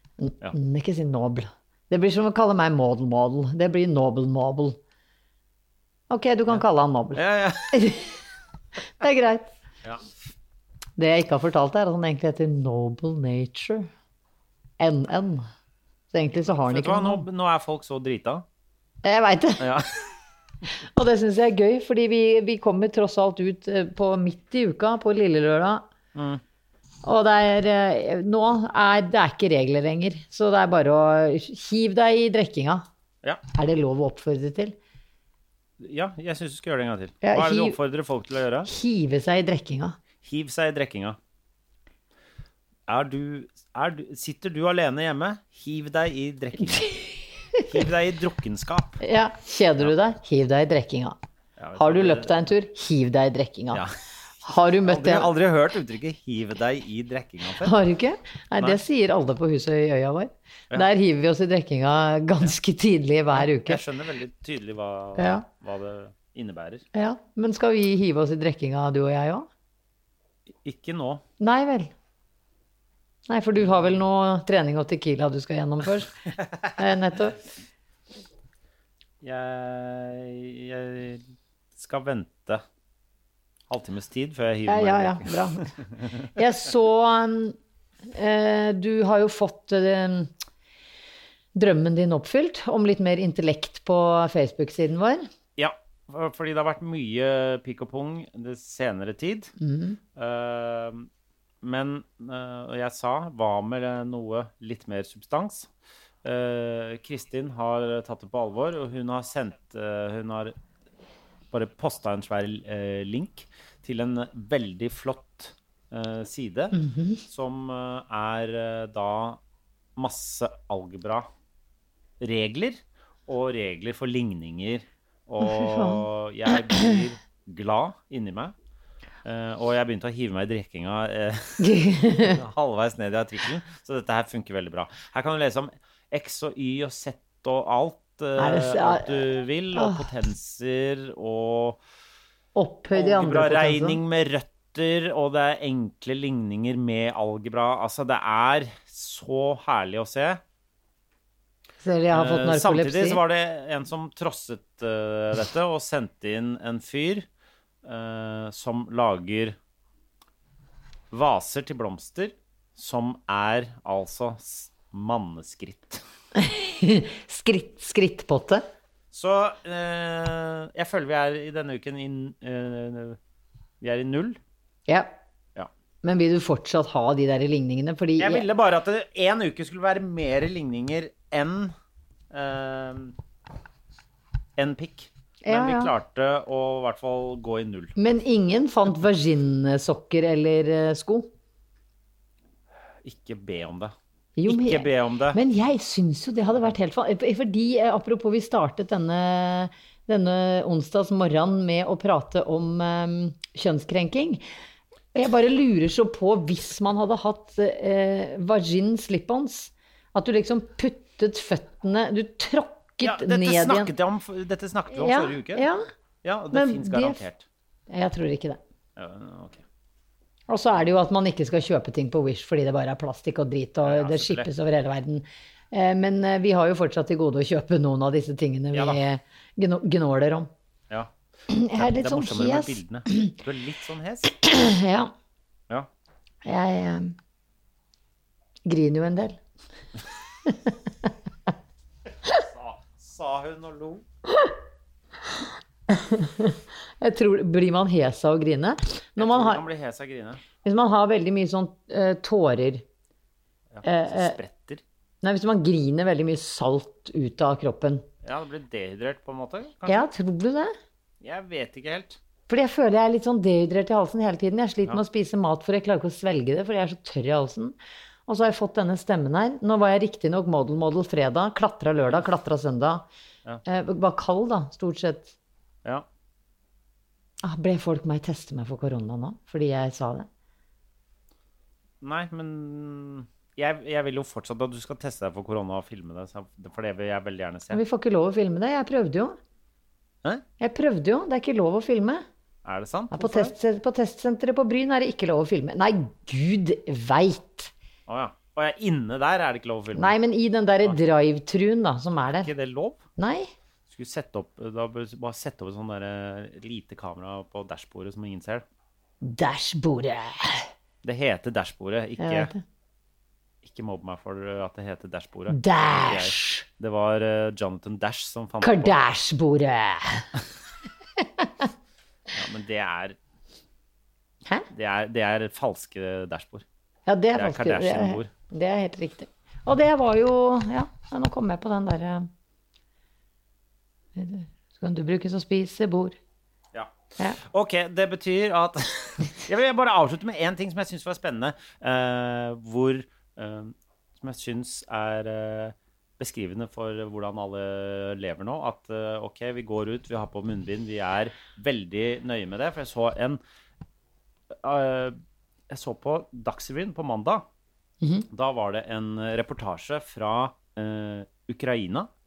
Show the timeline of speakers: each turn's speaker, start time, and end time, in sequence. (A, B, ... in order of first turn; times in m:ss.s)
0:00.2-0:04.8 A
0:06.1-0:08.1 A
0:07.1-0:07.9 B
0:09.0-0:09.5 A
0:11.0-0:13.9 A
0:14.8-0:15.5 A
0:16.1-0:17.2 A
0:16.5-0:18.4 B
0:19.0-0:19.8 A
0:19.6-0:19.9 B
0:20.9-0:25.8 A
0:26.1-0:26.4 B
0:27.0-0:32.8 A
0:33.5-0:34.8 A
0:35.8-0:38.7 B
0:37.2-0:37.8 A
0:38.7-0:40.0 A
0:40.2-0:41.2 B
0:42.9-0:46.9 B
0:47.7-0:49.0 B
0:49.0-0:51.2 A
0:51.6-0:52.3 B
0:51.8-0:53.8 A
0:54.4-0:55.3 A
0:54.9-0:57.7 B
0:57.6-1:03.8 A
1:03.3-1:06.8 B
1:05.2-1:05.4 A
1:06.9-1:09.5 A
1:10.6-1:11.2 B
1:11.4-1:11.9 A
1:13.3-1:16.1 A
1:16.8-1:17.4 A
1:19.2-1:22.6 B
1:23.7-1:26.3 B
1:24.7-1:25.7 A
1:26.4-1:27.6 A
1:28.1-1:30.3 A
1:31.5-1:35.3 A
1:35.6-1:39.5 B
1:39.6-1:40.0 A
1:40.1-1:41.1 B
1:41.6-1:45.7 B
1:46.2-1:50.5 B
1:51.5-1:59.4 B
1:56.7-1:57.2 A
2:00.0-2:01.3 B
2:02.2-2:08.5 B
2:05.4-2:06.0 A
2:06.7-2:07.0 A
2:09.2-2:21.8 B
2:11.6-2:12.4 A
2:18.4-2:20.0 A
2:22.5-2:24.0 A
2:22.9-2:30.4 B
2:31.8-2:33.2 A
2:32.1-2:37.2 B
2:37.8-2:39.6 B
2:41.1-2:46.0 B
2:46.4-2:48.6 A
2:49.1-2:53.2 B
2:53.8-2:54.4 B
2:54.9-2:55.2 A
2:56.0-2:58.4 A
2:58.2-3:01.7 B
3:02.3-3:03.1 B
3:04.6-3:07.9 B
3:05.4-3:05.9 A
3:08.0-3:11.3 A
3:13.0-3:13.9 B
3:14.4-3:24.4 A
3:14.5-3:15.4 B
3:25.1-3:33.9 A
3:33.0-3:35.6 B
3:34.9-3:35.8 A
3:36.2-3:37.4 B
3:36.5-3:37.2 A
3:37.9-3:38.6 A
3:39.0-3:39.6 B
3:40.5-3:50.5 A
3:43.8-3:44.5 B
3:48.7-3:49.0 B
3:51.5-3:53.3 A
3:51.8-3:54.3 B
3:54.4-3:55.1 A
3:56.4-3:57.1 A
3:58.6-3:59.4 A
4:02.3-4:04.0 B
4:05.9-4:09.6 A
4:09.2-4:10.4 B
4:10.6-4:12.8 A
4:13.7-4:14.8 B
4:13.8-4:14.4 A
4:15.2-4:18.0 A
4:18.2-4:20.1 B
4:19.8-4:20.7 A
4:21.2-4:22.2 B
4:22.5-4:27.8 A
4:28.3-4:33.0 A
4:33.6-4:35.3 A
4:37.4-4:40.3 A
4:42.0-4:47.8 B
4:47.7-4:49.4 A
4:50.6-4:52.2 A
4:52.6-4:53.5 B
4:53.1-4:57.7 A
4:58.1-5:00.2 B
4:59.9-5:02.5 A
5:02.3-5:03.0 B
5:03.2-5:03.5 A
5:03.9-5:08.6 B
5:09.2-5:10.7 A
5:11.0-5:12.5 B
5:12.2-5:12.6 A
5:13.6-5:18.9 B
5:15.5-5:16.6 A
5:18.6-5:20.2 A
5:22.3-5:23.2 B
5:24.7-5:26.6 B
5:27.1-5:32.3 A
5:27.3-5:28.3 B
5:34.1-5:36.2 A
5:36.7-5:53.4 B
5:54.6-5:55.2 B
5:55.7-5:57.4 B
5:58.3-6:02.1 B